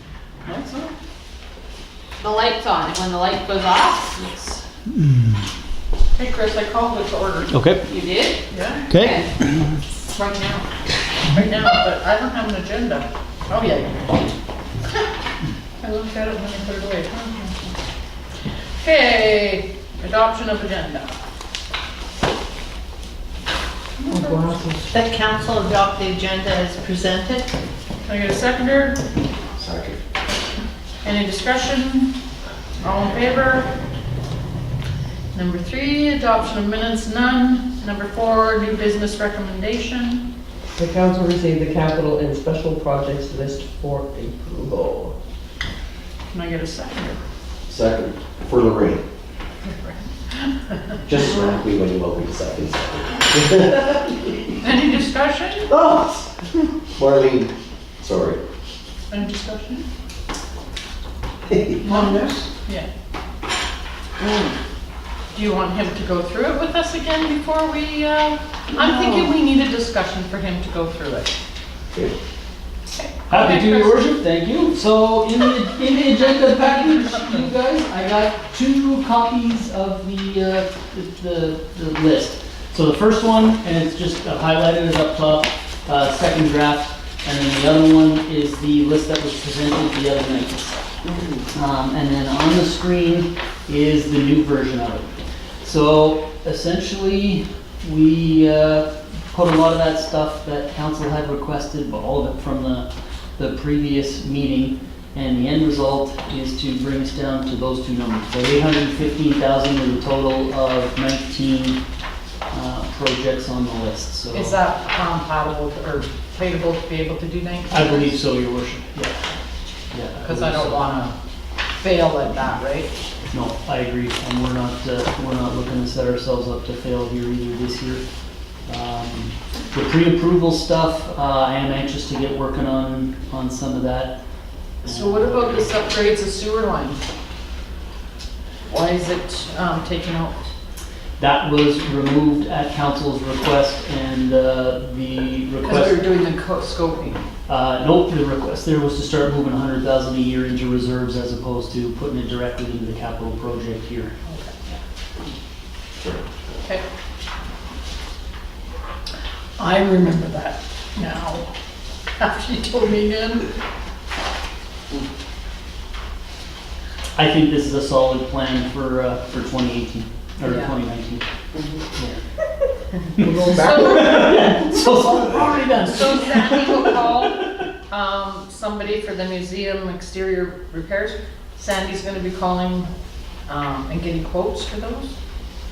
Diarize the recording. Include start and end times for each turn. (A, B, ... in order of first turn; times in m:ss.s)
0:00.4-0:00.8 A
0:02.2-0:04.5 B
0:06.1-0:07.5 C
0:07.5-0:07.8 A
0:07.9-0:08.4 B
0:08.5-0:08.9 C
0:08.9-0:09.7 A
0:08.9-0:09.3 B
0:10.1-0:10.6 C
0:11.3-0:14.3 C
0:15.8-0:17.7 C
0:18.8-0:21.2 C
0:24.0-0:24.6 C
0:24.1-0:24.9 D
0:24.9-0:27.5 E
0:28.0-0:29.0 C
0:29.6-0:30.0 F
0:31.0-0:32.1 C
0:32.8-0:33.7 C
0:35.3-0:40.2 C
0:40.8-0:45.1 D
0:46.3-0:47.2 C
0:47.7-0:49.0 F
0:49.6-0:51.0 C
0:51.0-0:54.4 F
0:54.6-0:55.7 C
0:55.7-0:56.1 F
0:57.0-0:58.4 F
0:59.1-0:59.8 C
1:01.5-1:01.8 F
1:01.8-1:02.5 D
1:01.8-1:02.9 C
1:04.2-1:04.5 D
1:05.3-1:11.3 C
1:12.9-1:14.0 C
1:13.3-1:30.8 A
1:31.1-1:31.4 D
1:31.5-1:35.1 A
1:35.6-1:51.8 A
1:52.5-1:54.6 A
1:54.3-1:58.1 C
1:57.7-1:59.2 A
1:59.9-2:00.8 A
2:00.2-2:01.1 C
2:01.8-2:02.9 C
2:03.3-2:08.0 A
2:08.7-2:14.2 A
2:14.8-2:15.7 A
2:14.8-2:17.0 C
2:18.7-2:20.4 C
2:21.2-2:26.0 A
2:25.6-2:27.2 C
2:27.5-2:34.1 A
2:34.2-2:34.5 C
2:36.0-2:36.4 F
2:39.6-2:41.5 C
2:42.2-2:43.5 C
2:47.2-2:51.2 A
2:50.4-2:50.7 C
2:51.5-2:51.8 D
2:53.2-2:54.6 D
2:53.2-2:57.2 A
2:53.5-2:54.3 C
2:55.8-3:02.9 C
3:03.5-3:05.1 C